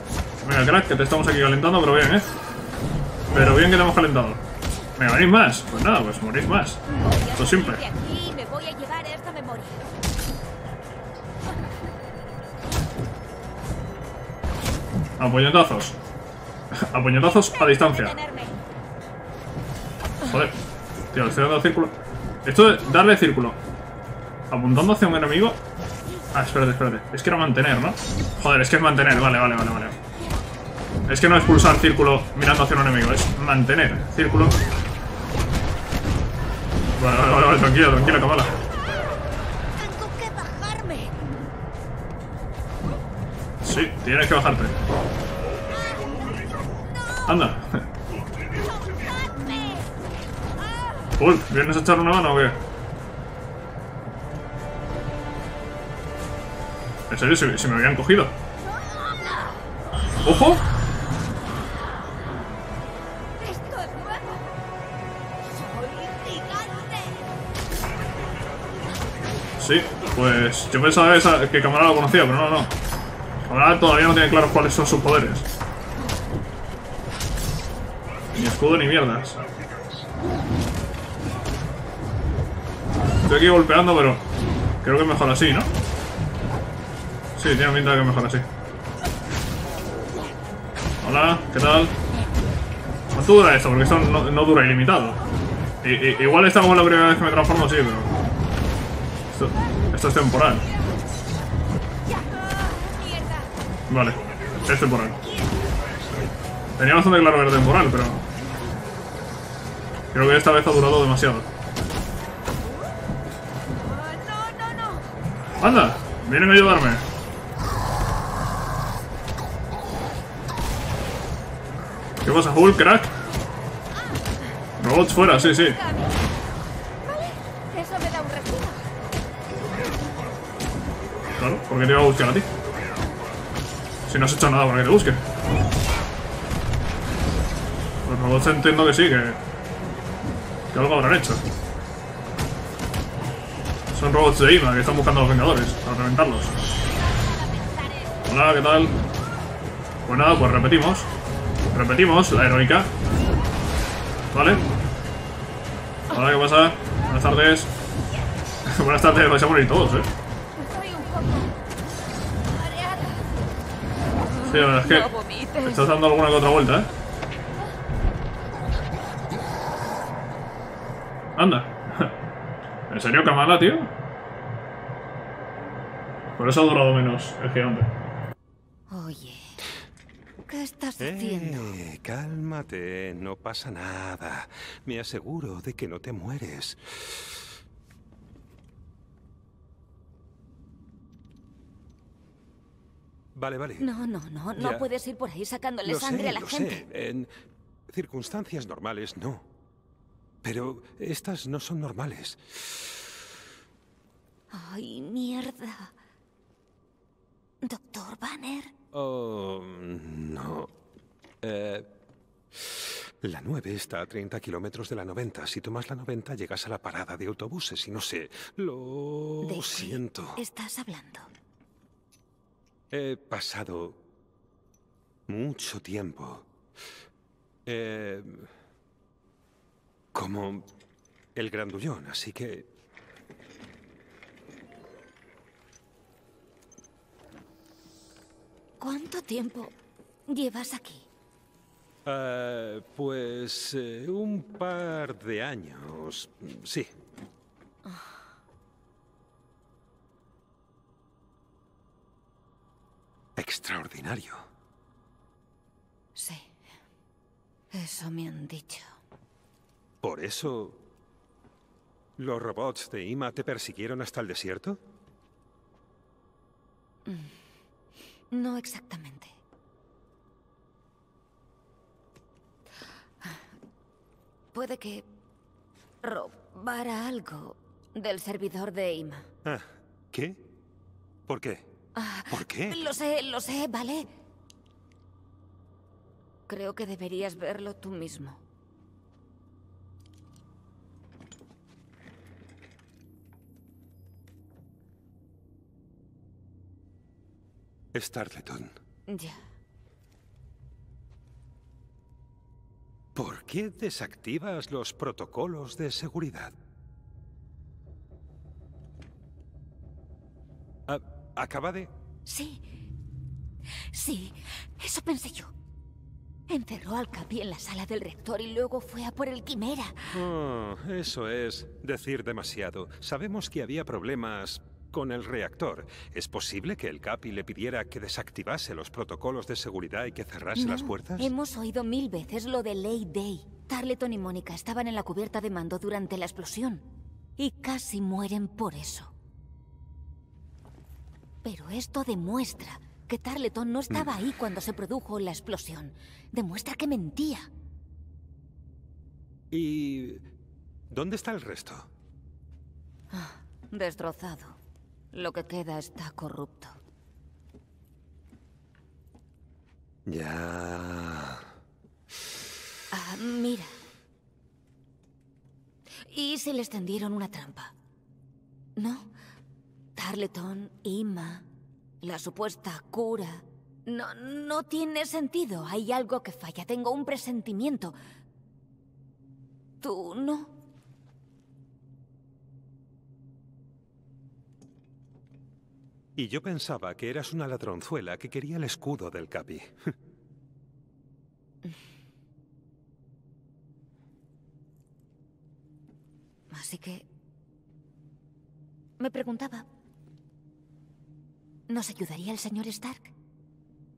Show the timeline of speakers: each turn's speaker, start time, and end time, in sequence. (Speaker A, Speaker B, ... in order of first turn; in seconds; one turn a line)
Speaker A: 0.4-2.3
Speaker A: 3.3-4.4
Speaker A: 5.0-6.8
Speaker B: 6.9-9.9
Speaker A: 7.4-7.8
Speaker A: 15.2-16.0
Speaker A: 16.8-18.1
Speaker B: 17.4-18.6
Speaker A: 20.2-20.6
Speaker A: 21.1-23.6
Speaker A: 24.5-25.6
Speaker A: 26.3-30.0
Speaker A: 31.1-34.6
Speaker A: 37.0-38.5
Speaker B: 39.8-41.3
Speaker A: 43.6-44.8
Speaker B: 45.7-46.2
Speaker A: 47.3-47.9
Speaker B: 48.7-49.9
Speaker A: 51.2-52.6
Speaker A: 57.1-58.3
Speaker B: 58.6-59.7
Speaker A: 60.2-60.6
Speaker B: 63.4-64.5
Speaker B: 65.5-67.3
Speaker A: 69.6-72.7
Speaker A: 73.5-75.5
Speaker A: 78.3-79.4
Speaker A: 83.2-84.2
Speaker A: 84.8-85.7
Speaker A: 87.4-88.5
Speaker A: 91.0-92.0
Speaker A: 93.1-95.2
Speaker A: 95.8-98.1
Speaker A: 99.3-100.7
Speaker B: 102.1-103.5
Speaker A: 103.9-105.2
Speaker A: 106.8-108.2
Speaker A: 110.1-111.5
Speaker B: 113.7-115.1
Speaker A: 115.6-117.0
Speaker A: 122.2-123.1
Speaker A: 124.8-125.8
Speaker B: 125.2-126.3
Speaker B: 127.1-128.9
Speaker A: 131.4-132.5
Speaker A: 134.1-135.2
Speaker A: 138.1-139.4
Speaker A: 140.7-141.4
Speaker A: 143.9-146.5
Speaker B: 147.0-148.2
Speaker A: 148.3-148.9
Speaker A: 150.1-151.1
Speaker A: 151.7-152.9
Speaker A: 154.3-154.6
Speaker A: 156.1-157.7
Speaker A: 158.7-160.1
Speaker B: 160.6-161.5
Speaker B: 162.4-163.3
Speaker B: 164.2-165.9
Speaker A: 164.4-165.1
Speaker A: 165.6-166.9
Speaker A: 171.4-172.1
Speaker A: 172.9-173.9
Speaker A: 176.4-177.9
Speaker B: 178.9-179.6
Speaker B: 180.5-181.8
Speaker C: 181.0-187.4
Speaker C: 193.3-193.9
Speaker B: 193.8-196.8
Speaker C: 194.6-194.9
Speaker C: 195.8-197.3
Speaker C: 197.9-199.5
Speaker C: 200.4-203.0
Speaker B: 204.5-205.9
Speaker B: 207.6-208.7
Speaker C: 208.9-210.7
Speaker C: 211.4-211.9
Speaker C: 212.6-220.4
Speaker B: 219.4-221.3
Speaker C: 222.9-224.0
Speaker C: 225.3-226.5
Speaker C: 227.7-228.5
Speaker C: 230.1-230.7
Speaker C: 231.3-232.7
Speaker B: 238.8-239.7
Speaker B: 240.3-241.1
Speaker C: 242.1-246.9
Speaker B: 247.8-248.1
Speaker C: 253.4-254.5
Speaker B: 256.1-256.5
Speaker B: 257.7-258.9
Speaker C: 260.0-260.8
Speaker C: 262.2-264.8
Speaker B: 267.1-267.3
Speaker B: 268.3-269.4
Speaker B: 274.5-275.1
Speaker B: 276.0-279.3
Speaker C: 279.4-280.5
Speaker C: 281.3-281.8
Speaker B: 281.9-284.1
Speaker C: 282.3-282.9
Speaker B: 286.5-288.4
Speaker C: 297.9-298.8
Speaker B: 299.1-299.4
Speaker C: 303.1-306.6
Speaker C: 310.9-311.9
Speaker B: 312.3-312.6
Speaker B: 313.9-315.5
Speaker B: 316.5-320.2
Speaker C: 320.1-331.3
Speaker B: 330.6-336.8
Speaker B: 337.4-339.1
Speaker B: 341.4-347.5
Speaker C: 343.9-344.2
Speaker C: 349.5-350.3
Speaker C: 350.9-351.9
Speaker B: 353.1-354.6
Speaker B: 355.1-356.8
Speaker C: 360.1-361.5
Speaker B: 362.9-363.7
Speaker B: 366.1-367.7
Speaker B: 368.8-369.1
Speaker B: 370.0-371.4
Speaker B: 372.0-378.0
Speaker B: 379.8-380.5
Speaker C: 386.2-390.0
Speaker B: 396.5-397.1
Speaker B: 399.0-399.7
Speaker B: 401.7-403.1